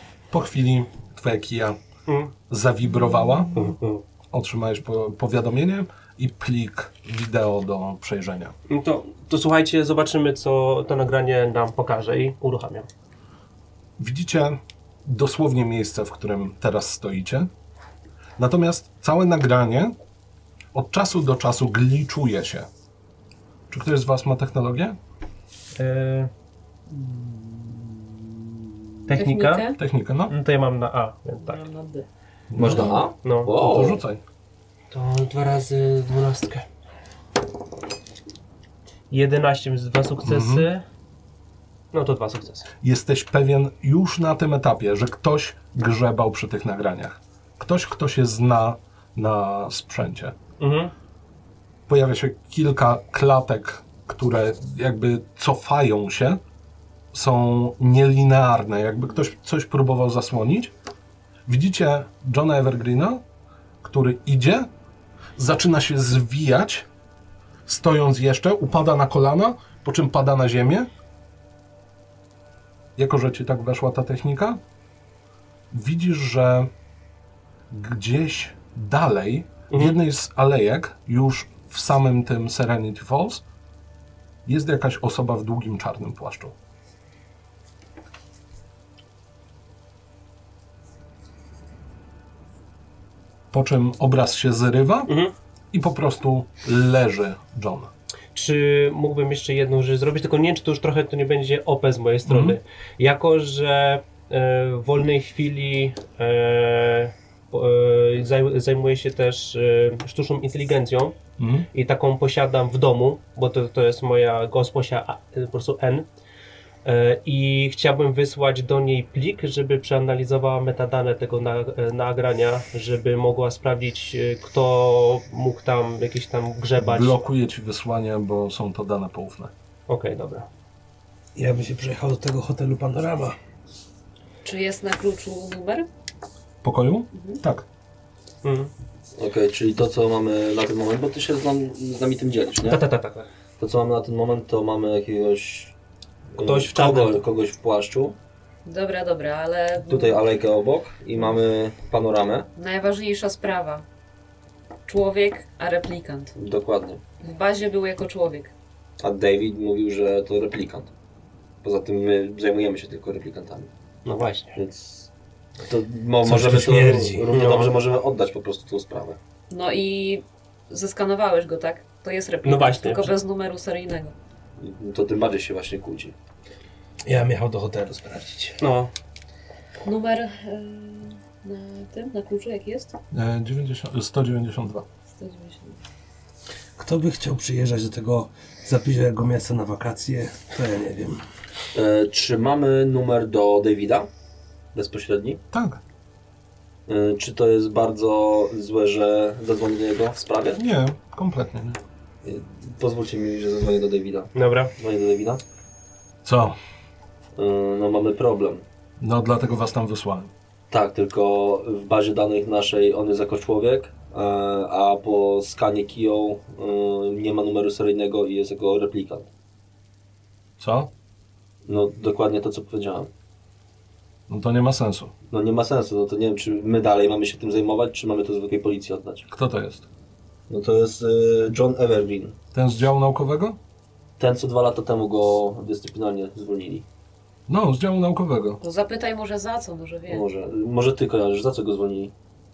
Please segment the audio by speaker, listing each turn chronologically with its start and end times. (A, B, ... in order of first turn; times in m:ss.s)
0:00.3-0:01.8 A
0:02.1-0:02.3 B
0:02.5-0:03.6 A
0:03.5-0:04.0 B
0:04.3-0:08.5 A
0:08.7-0:12.9 B
0:14.0-0:17.5 A
0:18.4-0:20.0 A
0:20.7-0:22.7 A
0:23.7-0:25.0 A
0:25.8-0:26.3 B
0:27.2-0:27.6 C
0:29.1-0:29.7 B
0:29.1-0:29.8 D
0:29.8-0:30.3 A
0:30.3-0:31.6 B
0:31.4-0:32.0 D
0:32.5-0:34.2 A
0:32.6-0:34.0 C
0:33.2-0:33.5 B
0:34.9-0:36.6 B
0:39.1-0:40.8 B
0:40.2-0:40.7 A
0:41.9-0:42.7 B
0:42.8-0:50.4 A
0:50.6-0:50.9 B
0:51.9-0:56.4 A
0:57.1-1:00.7 A
1:01.4-1:03.2 A
1:03.8-1:04.7 A
1:05.4-1:06.9 A
1:07.6-1:10.9 A
1:13.0-1:14.6 A
1:15.7-1:16.7 A
1:17.7-1:23.4 A
1:19.7-1:20.0 B
1:24.4-1:26.5 A
1:33.5-1:35.1 A
1:35.1-1:35.3 B
1:35.7-1:37.9 A
1:38.3-1:51.2 B
1:42.3-1:42.6 A
1:51.4-1:51.7 A
1:51.7-1:56.0 B
1:56.8-2:07.2 B
2:06.8-2:09.5 A
2:09.9-2:10.5 B
2:11.3-2:13.4 E
2:14.4-2:15.9 D
2:16.6-2:17.6 A
2:17.1-2:17.4 D
2:18.4-2:18.7 B
2:19.2-2:22.8 C
2:22.6-2:23.3 B
2:23.6-2:25.7 C
2:26.3-2:28.2 C
2:26.4-2:27.2 B
2:28.6-2:30.2 D
2:29.9-2:32.5 C
2:32.6-2:33.8 D
2:34.9-2:36.3 D
2:36.4-2:37.0 C
2:37.2-2:38.5 D
2:39.0-2:40.9 C
2:41.6-2:43.7 C
2:44.0-2:44.6 B
2:44.5-2:45.1 C
2:45.6-2:49.2 C
2:46.2-2:47.3 E
2:47.3-2:47.8 B
2:49.5-2:54.1 D
2:52.4-2:53.2 B
2:54.6-2:56.1 C
2:57.0-2:58.6 E
2:58.6-2:58.9 B
2:59.8-3:02.9 D
3:03.1-3:04.8 A
3:05.1-3:05.8 D
3:06.8-3:11.2 E
3:11.7-3:14.1 C
3:14.7-3:15.4 C
3:15.5-3:15.8 A
3:16.9-3:20.6 C
3:20.5-3:21.8 A
3:22.2-3:25.4 C
3:24.3-3:24.7 B
3:26.2-3:26.6 A
3:27.4-3:28.6 C
3:29.0-3:30.3 A
3:30.7-3:39.3 C
3:40.6-3:40.9 A
3:41.6-3:43.1 C
3:44.3-3:45.1 A
3:45.3-3:49.3 C
3:49.3-3:49.8 A
3:50.5-3:52.4 C
3:52.5-3:53.6 A
3:54.2-3:56.8 C
3:57.5-3:58.6 A
3:58.6-4:00.2 D
4:00.1-4:02.1 C